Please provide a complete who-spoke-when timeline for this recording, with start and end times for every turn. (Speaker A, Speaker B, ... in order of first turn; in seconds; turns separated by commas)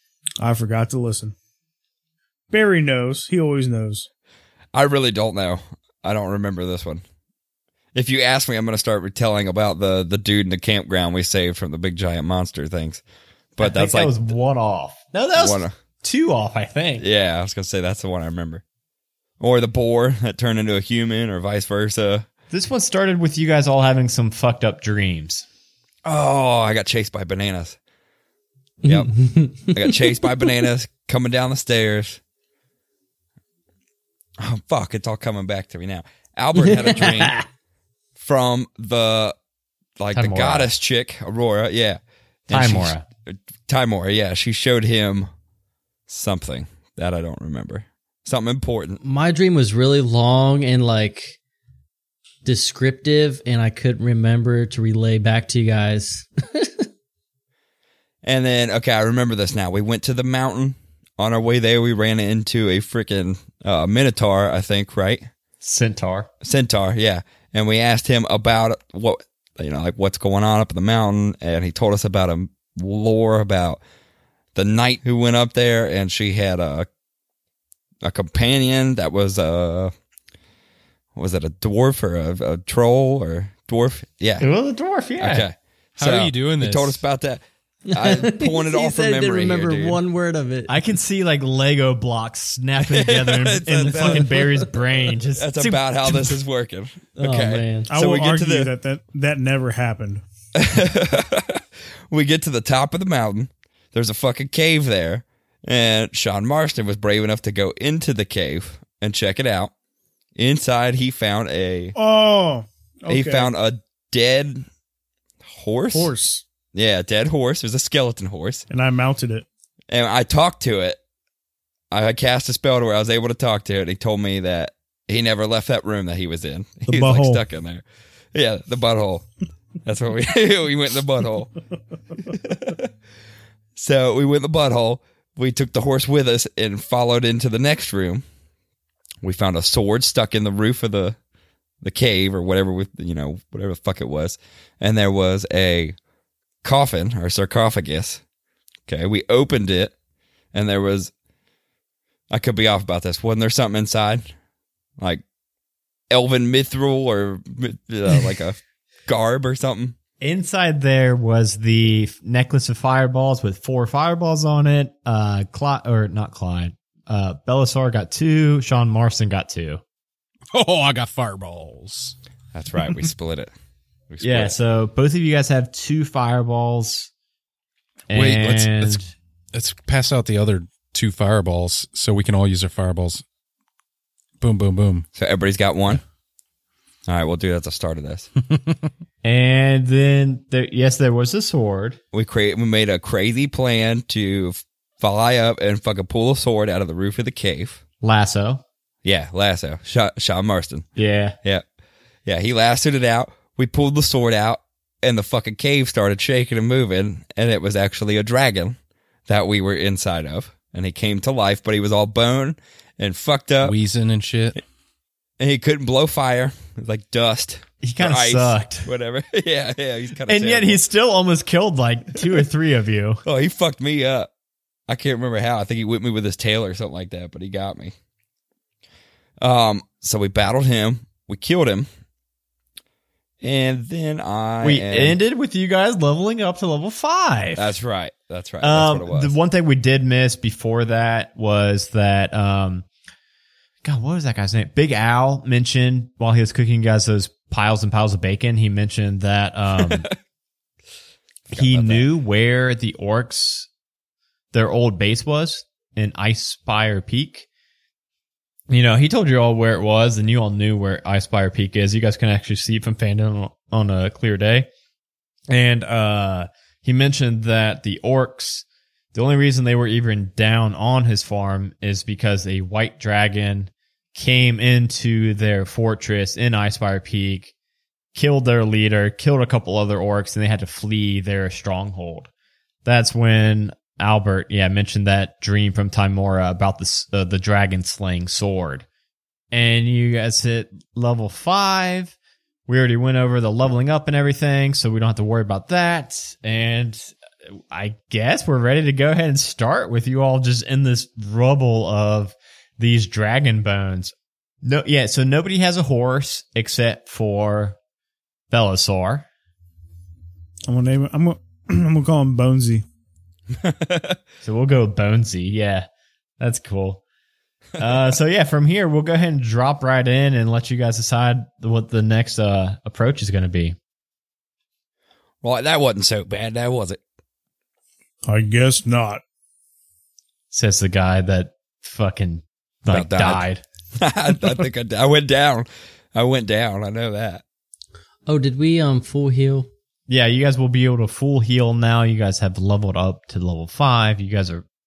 Speaker A: 0.4-1.3, Speaker A: 2.5-4.1, Speaker B: 4.7-7.0, Speaker B: 7.9-13.0, Speaker B: 13.6-14.1, Speaker C: 13.6-17.0, Speaker B: 15.3-15.7, Speaker B: 17.0-18.6, Speaker B: 19.4-22.3, Speaker C: 22.5-25.4, Speaker B: 26.0-27.8, Speaker D: 28.8-30.2, Speaker B: 28.8-32.2, Speaker B: 34.4-37.4, Speaker D: 36.6-37.4, Speaker B: 38.2-39.4, Speaker B: 40.0-45.3, Speaker C: 40.1-40.7, Speaker C: 42.5-43.0, Speaker B: 46.1-49.0, Speaker D: 49.0-51.4, Speaker D: 52.4-56.8, Speaker B: 58.2-65.3, Speaker C: 65.6-66.3, Speaker B: 66.4-73.8, Speaker B: 74.5-76.9, Speaker B: 78.0-79.9, Speaker B: 81.1-84.5, Speaker C: 84.4-85.5, Speaker B: 85.2-90.0, Speaker E: 86.0-87.0, Speaker D: 87.9-90.7, Speaker C: 90.7-96.3, Speaker B: 92.8-94.5, Speaker B: 95.4-98.7, Speaker D: 97.2-97.6, Speaker C: 97.4-97.9, Speaker A: 97.9-100.2, Speaker B: 100.5-109.7, Speaker B: 110.3-111.9, Speaker A: 112.0-113.5, Speaker B: 113.1-114.7, Speaker B: 115.4-116.1, Speaker A: 115.9-116.4, Speaker B: 116.7-118.7, Speaker A: 118.7-119.5, Speaker B: 119.9-121.0, Speaker B: 121.9-129.3, Speaker A: 126.9-127.4, Speaker B: 129.8-131.5, Speaker B: 132.2-132.9, Speaker B: 133.8-138.2, Speaker B: 139.2-141.2, Speaker B: 141.8-145.9, Speaker B: 146.6-148.2, Speaker B: 148.9-149.9, Speaker B: 150.5-151.1, Speaker B: 152.3-154.2, Speaker B: 156.1-159.9, Speaker C: 160.2-169.8, Speaker E: 170.5-172.1, Speaker B: 172.5-173.5, Speaker B: 174.1-174.6, Speaker C: 174.2-177.1, Speaker C: 178.1-179.1, Speaker E: 178.1-183.2, Speaker E: 184.4-185.0, Speaker B: 185.2-186.0, Speaker B: 187.1-188.3, Speaker C: 189.2-192.0, Speaker B: 192.1-197.8, Speaker C: 198.0-198.6, Speaker B: 199.0-200.9, Speaker C: 200.9-201.4, Speaker B: 202.2-208.8, Speaker B: 209.3-213.8, Speaker E: 213.6-214.6, Speaker B: 215.4-220.8, Speaker C: 217.8-218.9, Speaker C: 220.3-223.2, Speaker B: 223.2-224.3, Speaker B: 224.9-227.9, Speaker B: 229.4-231.9, Speaker B: 233.4-235.2, Speaker C: 234.6-237.7, Speaker B: 237.5-239.3, Speaker C: 238.6-242.8, Speaker C: 243.8-250.1, Speaker C: 251.5-253.7, Speaker B: 251.5-252.1, Speaker C: 254.5-257.5, Speaker C: 258.7-264.7, Speaker C: 265.5-277.5, Speaker C: 278.1-282.3, Speaker C: 282.8-288.8, Speaker C: 289.5-292.1, Speaker C: 292.7-297.1, Speaker C: 297.7-307.8, Speaker C: 308.5-309.3, Speaker A: 310.7-312.8, Speaker B: 313.5-314.2, Speaker C: 314.4-315.9, Speaker C: 316.4-317.0, Speaker C: 317.8-323.8, Speaker B: 325.4-327.0, Speaker A: 328.2-329.2, Speaker C: 330.5-333.6, Speaker B: 332.9-337.4, Speaker D: 338.2-339.7, Speaker C: 340.1-344.6